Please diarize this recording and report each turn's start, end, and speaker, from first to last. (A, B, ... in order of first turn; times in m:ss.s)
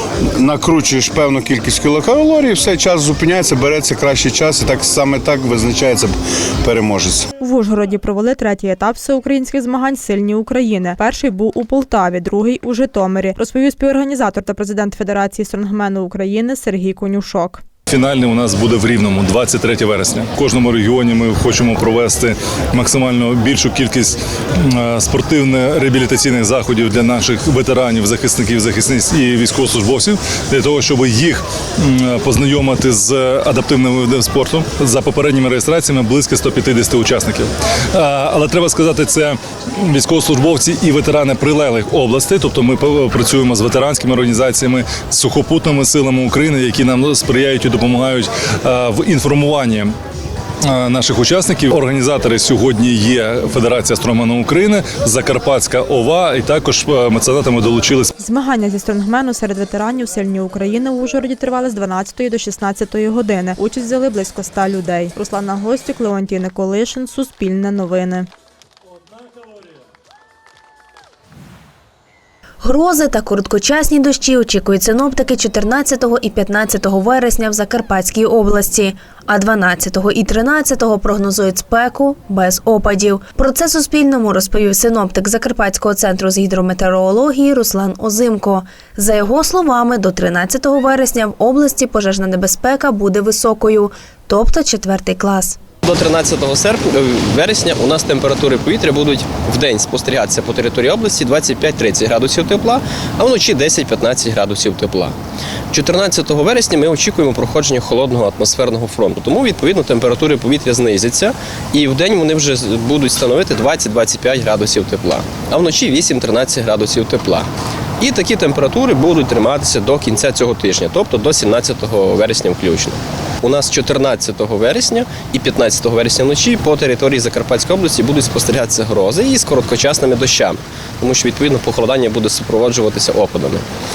0:00.4-0:07.3 A
0:07.4-0:17.6 B
0:17.9-0:49.9 C
0:50.7-0:58.1 C
0:58.2-1:08.3 B
1:12.6-1:35.6 D
1:35.8-1:45.1 E
1:45.7-1:57.5 E
1:58.0-2:13.6 E